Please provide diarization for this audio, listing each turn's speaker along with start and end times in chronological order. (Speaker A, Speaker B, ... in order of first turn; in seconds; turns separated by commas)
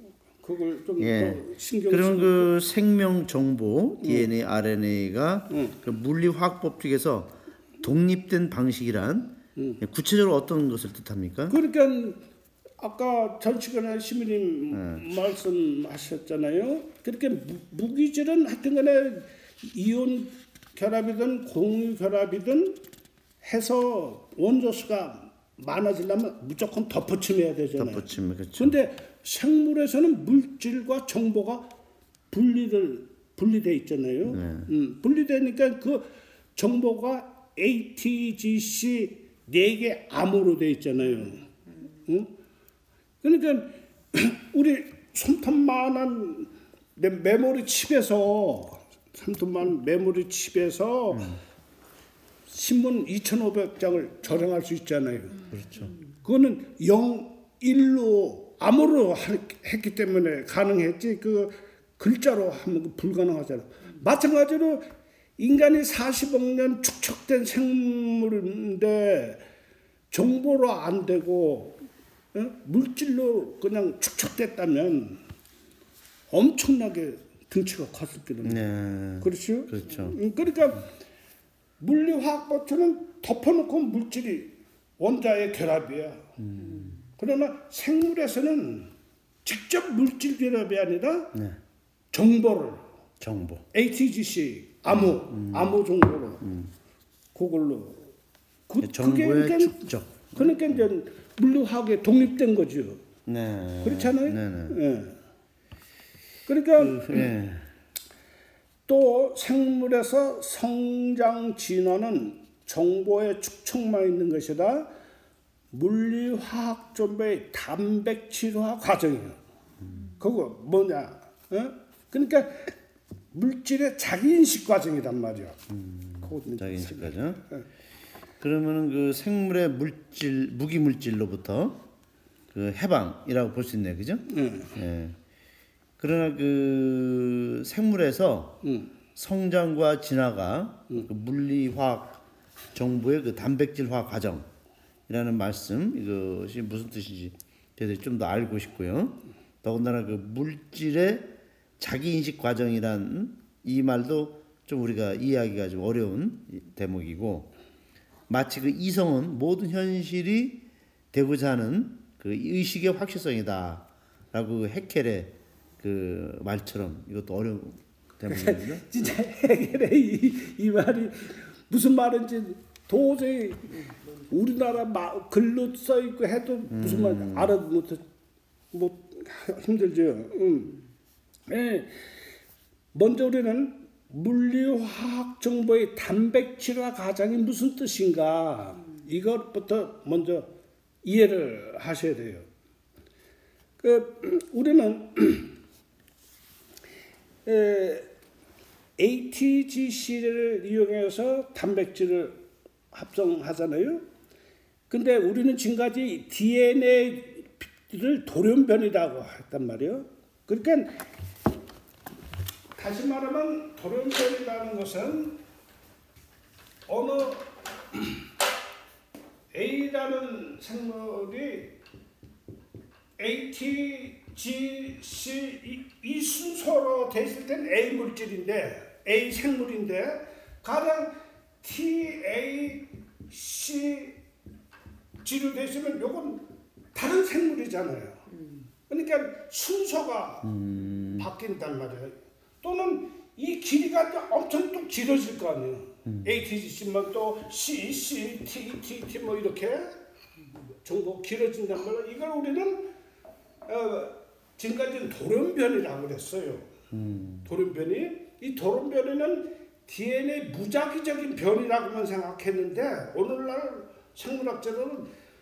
Speaker A: 0.4-2.5, Speaker B: 1.0-11.6, Speaker A: 4.0-4.3, Speaker A: 5.5-5.8, Speaker A: 9.6-9.8, Speaker A: 11.5-12.2, Speaker A: 12.8-22.8, Speaker B: 14.7-15.1, Speaker A: 23.4-31.7, Speaker B: 27.8-28.8, Speaker A: 32.3-41.5, Speaker B: 34.3-34.7, Speaker A: 42.0-42.3, Speaker A: 43.2-51.4, Speaker B: 51.1-51.4, Speaker A: 52.5-55.4, Speaker B: 55.5-55.9, Speaker A: 56.2-69.4, Speaker A: 70.1-71.8, Speaker A: 72.3-75.2, Speaker A: 76.3-78.6, Speaker B: 78.4-80.2, Speaker A: 79.2-80.9, Speaker A: 81.8-86.3, Speaker B: 86.4-87.0, Speaker A: 87.2-88.9, Speaker A: 89.4-91.3, Speaker A: 92.1-92.8, Speaker B: 93.2-93.6, Speaker A: 93.7-96.4, Speaker B: 94.9-95.8, Speaker B: 96.4-96.7, Speaker A: 97.3-98.1, Speaker A: 98.7-99.8, Speaker B: 98.8-100.8, Speaker A: 100.3-103.0, Speaker B: 103.2-104.8, Speaker A: 103.8-105.2, Speaker A: 106.5-107.3, Speaker B: 106.8-107.7, Speaker A: 108.9-114.9, Speaker A: 115.7-119.4, Speaker A: 120.2-122.7, Speaker A: 123.3-125.6, Speaker B: 125.7-127.4, Speaker A: 126.2-127.6, Speaker B: 128.4-131.8, Speaker B: 132.5-135.2, Speaker A: 134.3-134.7, Speaker B: 136.0-138.6, Speaker A: 138.6-138.9, Speaker B: 139.2-142.2, Speaker B: 142.7-144.5, Speaker B: 145.1-157.5, Speaker B: 158.3-168.8, Speaker A: 168.3-178.0, Speaker B: 176.7-177.5, Speaker A: 178.7-180.8, Speaker A: 181.5-182.1, Speaker A: 182.9-190.5, Speaker A: 191.0-192.5, Speaker A: 193.8-195.5, Speaker A: 197.4-198.1, Speaker A: 199.0-202.4, Speaker A: 202.9-204.0, Speaker A: 204.9-211.0, Speaker A: 212.8-215.4, Speaker A: 216.9-218.2, Speaker A: 219.5-221.8, Speaker A: 223.2-234.2, Speaker A: 235.2-238.2, Speaker A: 238.9-240.6, Speaker B: 240.4-241.3, Speaker A: 241.1-249.9, Speaker B: 246.0-246.3, Speaker A: 250.8-252.9, Speaker A: 253.7-256.7, Speaker B: 256.9-257.5, Speaker A: 257.4-265.1